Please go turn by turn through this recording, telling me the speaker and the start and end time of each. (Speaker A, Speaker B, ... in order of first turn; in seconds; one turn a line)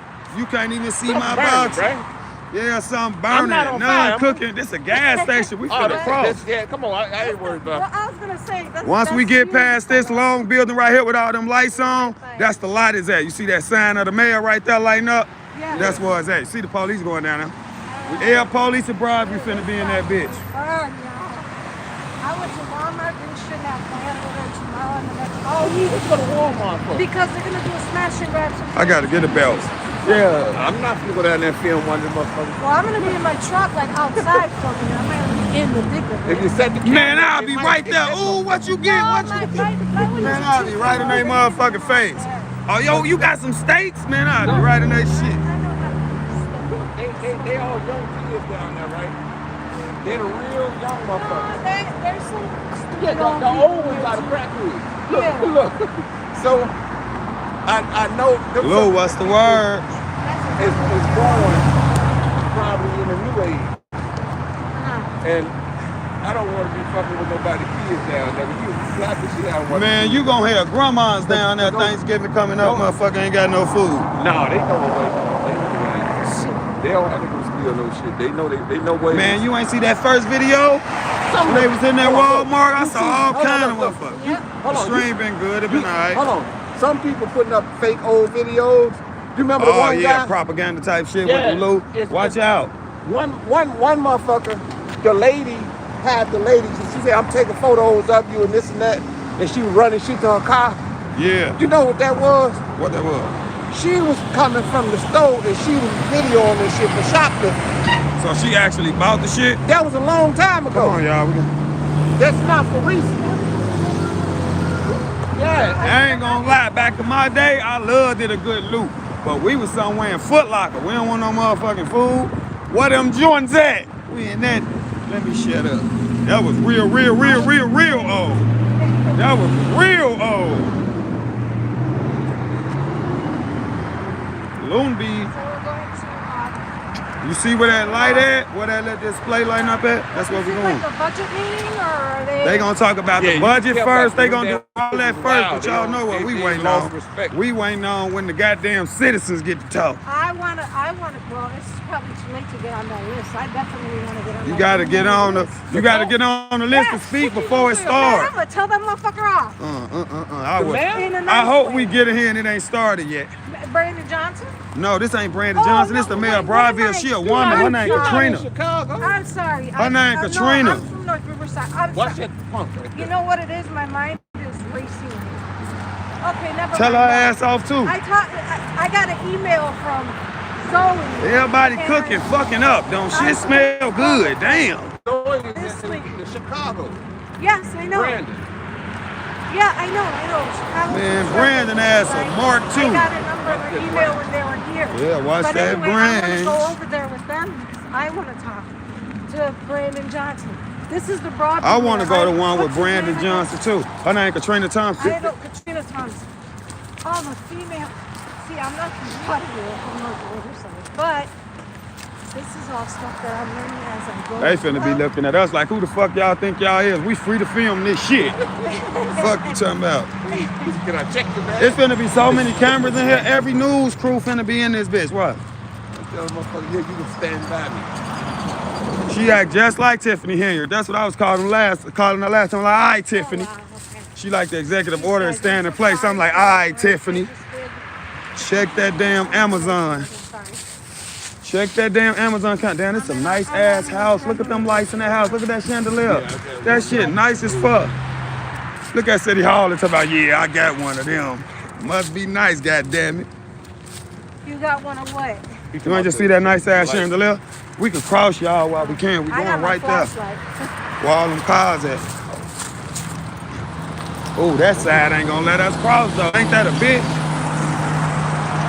Speaker A: 0.3-1.9
Speaker B: 1.0-2.0
Speaker A: 2.5-6.4
Speaker B: 3.3-4.4
Speaker C: 4.9-6.2
Speaker B: 5.7-7.8
Speaker C: 7.2-10.4
Speaker A: 8.8-17.5
Speaker C: 11.7-12.7
Speaker C: 15.5-16.0
Speaker B: 15.7-16.1
Speaker C: 17.8-21.5
Speaker A: 18.1-20.4
Speaker C: 22.2-26.2
Speaker B: 25.5-27.1
Speaker C: 26.9-29.9
Speaker A: 28.7-30.6
Speaker B: 30.0-33.3
Speaker C: 32.6-36.5
Speaker B: 34.1-34.4
Speaker B: 36.2-38.5
Speaker A: 36.8-45.4
Speaker C: 38.7-42.5
Speaker B: 40.0-40.4
Speaker B: 42.9-43.3
Speaker C: 44.4-47.8
Speaker B: 46.7-49.2
Speaker B: 50.0-51.5
Speaker C: 50.0-50.4
Speaker C: 51.1-54.4
Speaker B: 52.9-56.7
Speaker C: 55.0-55.6
Speaker B: 57.6-59.6
Speaker A: 58.6-59.9
Speaker C: 60.2-61.8
Speaker B: 60.6-61.7
Speaker B: 62.4-63.8
Speaker C: 64.7-65.1
Speaker B: 65.2-65.5
Speaker B: 66.2-70.3
Speaker A: 69.7-74.1
Speaker B: 71.2-72.0
Speaker B: 72.6-72.9
Speaker B: 74.1-79.4
Speaker C: 76.2-76.7
Speaker A: 79.1-80.8
Speaker B: 81.3-85.1
Speaker A: 81.4-86.2
Speaker C: 84.1-84.5
Speaker B: 85.7-90.3
Speaker A: 89.6-92.7
Speaker B: 91.2-92.4
Speaker B: 93.0-100.8
Speaker A: 101.1-101.6
Speaker B: 101.6-102.6
Speaker A: 102.8-103.3
Speaker B: 103.7-107.6
Speaker A: 108.2-109.6
Speaker B: 109.6-111.0
Speaker A: 110.7-111.5
Speaker B: 112.2-113.2
Speaker C: 112.3-116.7
Speaker B: 115.3-115.9
Speaker A: 115.8-128.5
Speaker C: 127.2-129.4
Speaker A: 129.2-130.7
Speaker A: 134.6-135.3
Speaker C: 135.3-136.6
Speaker A: 137.2-140.8
Speaker C: 137.6-138.3
Speaker C: 139.5-142.7
Speaker A: 142.4-150.0
Speaker B: 143.2-147.4
Speaker C: 150.0-155.5
Speaker A: 154.4-158.3
Speaker B: 155.7-156.1
Speaker C: 156.7-159.6
Speaker B: 157.6-158.0
Speaker A: 159.6-163.3
Speaker B: 160.6-161.2
Speaker C: 160.9-162.0
Speaker C: 163.5-164.6
Speaker A: 164.7-168.4
Speaker C: 165.5-168.3
Speaker B: 167.3-169.2
Speaker C: 169.0-172.2
Speaker A: 169.8-170.8
Speaker B: 171.9-173.1
Speaker C: 172.9-175.5
Speaker C: 176.2-182.2
Speaker A: 176.7-177.9
Speaker A: 181.2-184.9
Speaker C: 183.1-184.7
Speaker B: 185.0-187.0
Speaker C: 185.5-186.2
Speaker C: 187.4-188.2
Speaker B: 187.9-188.4
Speaker C: 189.5-203.5
Speaker A: 190.8-193.1
Speaker B: 193.4-194.2
Speaker A: 194.9-196.6
Speaker A: 201.6-205.2
Speaker C: 205.0-206.3
Speaker C: 207.0-211.3
Speaker C: 212.3-215.0
Speaker A: 214.4-218.4
Speaker C: 218.6-219.6
Speaker A: 219.2-220.1
Speaker B: 220.3-223.2
Speaker C: 220.3-220.7
Speaker A: 221.6-225.4
Speaker B: 225.9-227.9
Speaker A: 229.1-233.5
Speaker C: 233.1-234.1
Speaker A: 234.1-237.3
Speaker C: 234.9-237.8
Speaker C: 238.3-240.6
Speaker A: 238.4-240.1
Speaker A: 241.4-247.9
Speaker C: 242.9-245.4
Speaker B: 246.0-247.9
Speaker C: 246.9-247.2
Speaker A: 248.9-253.3
Speaker C: 254.4-255.5
Speaker B: 255.7-257.1
Speaker A: 255.8-260.1
Speaker C: 258.8-260.7
Speaker A: 261.0-262.3
Speaker A: 264.4-267.1
Speaker B: 264.8-265.0